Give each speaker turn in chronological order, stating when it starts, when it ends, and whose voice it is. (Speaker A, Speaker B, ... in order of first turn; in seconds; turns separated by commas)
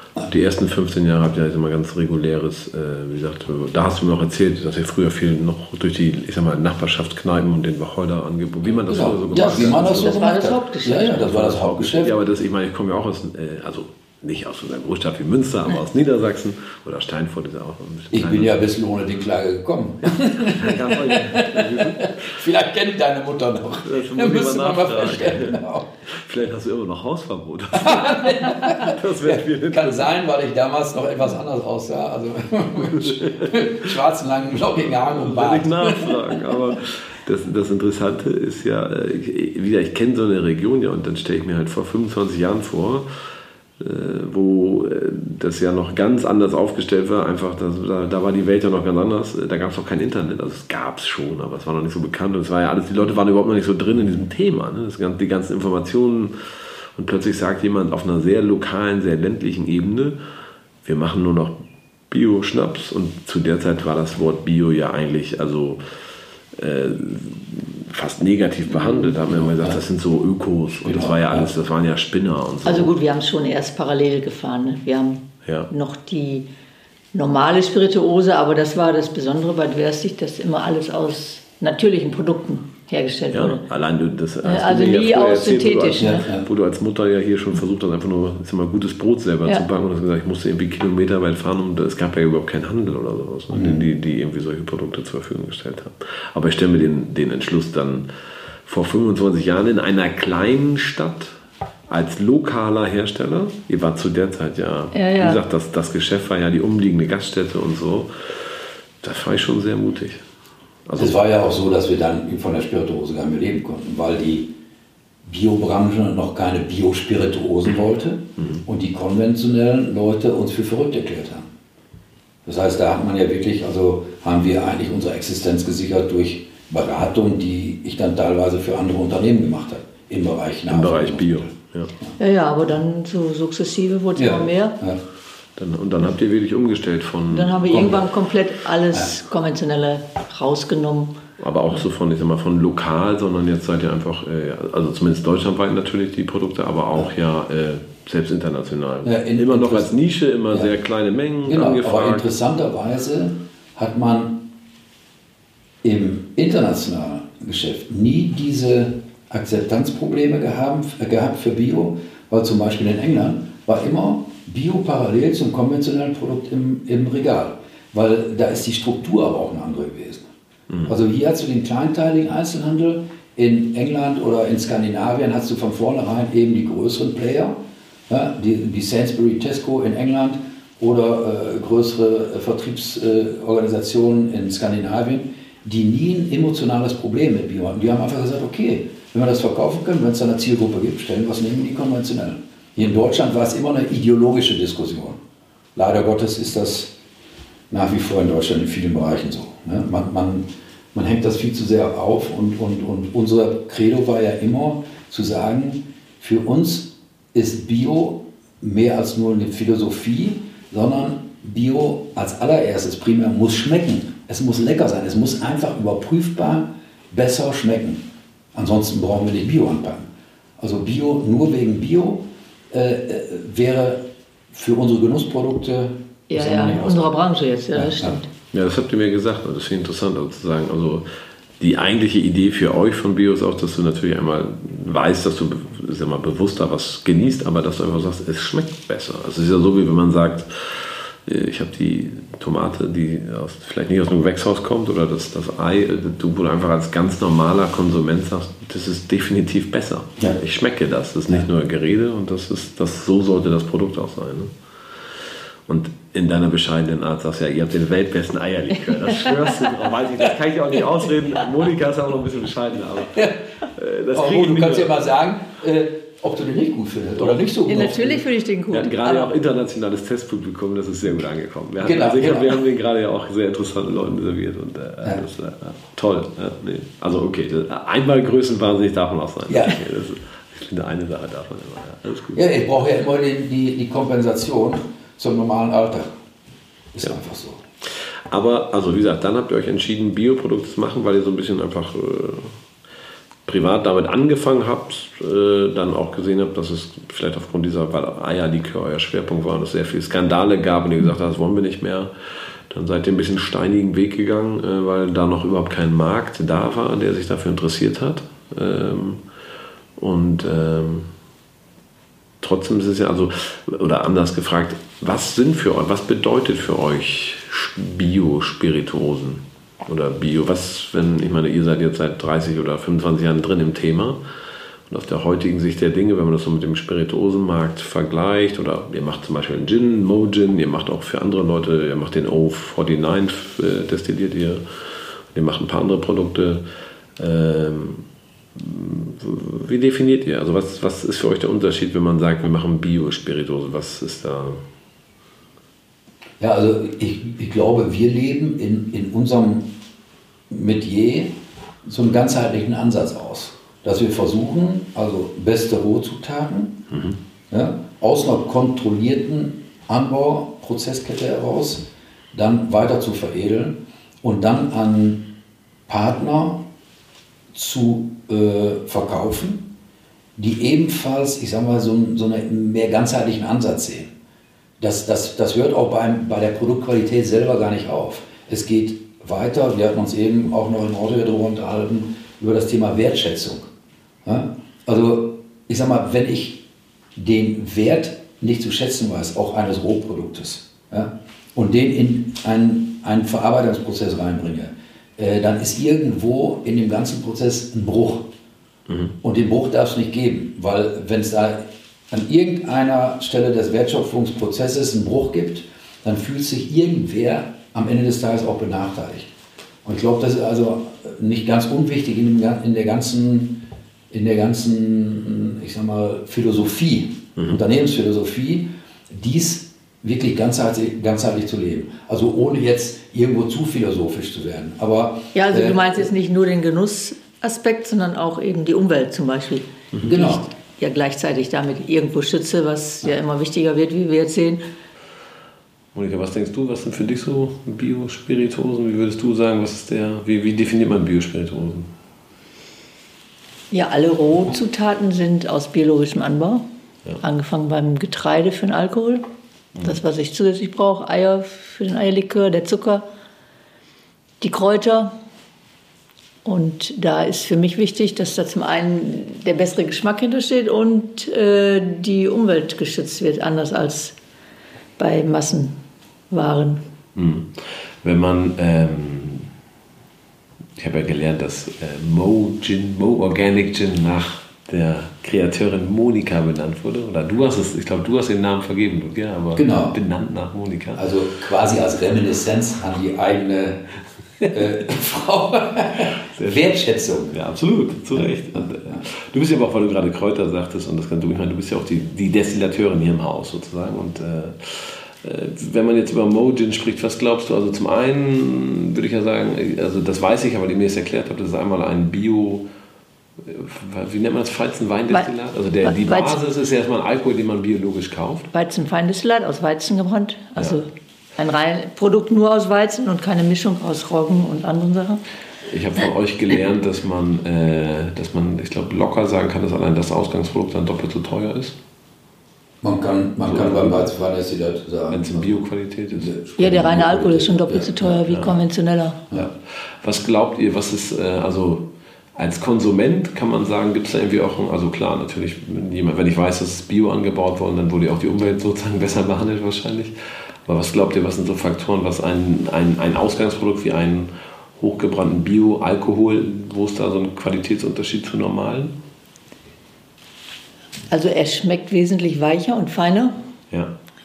Speaker A: 0.2-10.1, Speaker B: 8.8-12.1, Speaker C: 9.7-11.2, Speaker A: 11.1-18.6, Speaker B: 18.1-25.9, Speaker A: 20.1-22.3, Speaker A: 23.8-30.1, Speaker B: 27.7-36.4, Speaker A: 32.8-33.9, Speaker A: 34.9-43.1, Speaker A: 43.8-56.3, Speaker A: 56.9-60.2, Speaker A: 60.8-65.8, Speaker A: 66.5-72.9, Speaker B: 68.8-69.8, Speaker B: 70.8-71.5, Speaker C: 72.6-76.5, Speaker C: 77.1-83.6, Speaker A: 83.3-98.1, Speaker C: 84.4-86.3, Speaker B: 86.0-86.5, Speaker B: 93.5-93.9, Speaker A: 98.6-101.4, Speaker A: 101.9-110.2, Speaker C: 104.9-105.4, Speaker A: 110.9-111.2, Speaker B: 111.0-114.5, Speaker B: 115.2-121.5, Speaker A: 118.4-118.6, Speaker B: 122.4-131.5, Speaker A: 130.7-131.9, Speaker C: 132.2-134.8, Speaker B: 134.2-135.0, Speaker A: 135.6-137.9, Speaker C: 137.3-141.2, Speaker B: 137.6-138.1, Speaker A: 141.4-152.3, Speaker B: 149.0-149.9, Speaker B: 151.4-154.5, Speaker B: 155.8-170.3, Speaker B: 170.8-195.2, Speaker B: 195.7-196.9, Speaker B: 197.7-227.2, Speaker C: 226.3-228.3, Speaker B: 227.7-228.2, Speaker A: 228.5-231.1, Speaker A: 231.6-254.5, Speaker A: 255.7-265.0, Speaker B: 264.1-268.2, Speaker C: 267.6-269.3, Speaker A: 268.7-282.4, Speaker B: 271.8-272.6, Speaker B: 279.5-279.8, Speaker B: 282.3-286.1, Speaker B: 286.9-287.6, Speaker A: 287.9-292.6, Speaker A: 293.4-309.2, Speaker A: 310.0-311.1, Speaker A: 312.4-324.2, Speaker A: 324.9-334.6, Speaker A: 335.3-336.6, Speaker A: 337.2-338.0, Speaker A: 338.5-344.6, Speaker B: 346.4-349.7, Speaker B: 350.5-356.8, Speaker A: 356.9-357.2, Speaker B: 357.5-365.3, Speaker B: 365.9-366.6, Speaker B: 367.5-369.7, Speaker B: 370.4-374.1, Speaker B: 374.8-383.7, Speaker B: 384.2-386.6, Speaker B: 387.1-398.3, Speaker A: 398.9-399.1, Speaker B: 399.2-409.3, Speaker B: 409.8-426.1, Speaker C: 425.3-434.6, Speaker B: 430.1-430.4, Speaker A: 435.9-441.9, Speaker C: 443.7-446.6, Speaker C: 447.2-449.2, Speaker C: 449.8-453.1, Speaker C: 454.4-455.1, Speaker C: 456.4-464.1, Speaker C: 465.0-465.7, Speaker C: 466.3-466.8, Speaker A: 467.1-469.5, Speaker A: 470.8-481.1, Speaker B: 479.6-479.9, Speaker B: 480.9-483.9, Speaker B: 484.4-487.4, Speaker A: 486.2-486.7, Speaker A: 487.3-502.7, Speaker B: 488.1-489.0, Speaker A: 503.4-508.5, Speaker C: 505.8-506.4, Speaker C: 508.5-515.2, Speaker A: 515.6-521.8, Speaker B: 522.8-525.6, Speaker A: 523.4-524.1, Speaker A: 525.1-526.3, Speaker B: 526.1-528.2, Speaker C: 526.6-529.2, Speaker A: 528.3-528.5, Speaker A: 529.3-540.1, Speaker A: 540.6-549.0, Speaker C: 551.1-553.4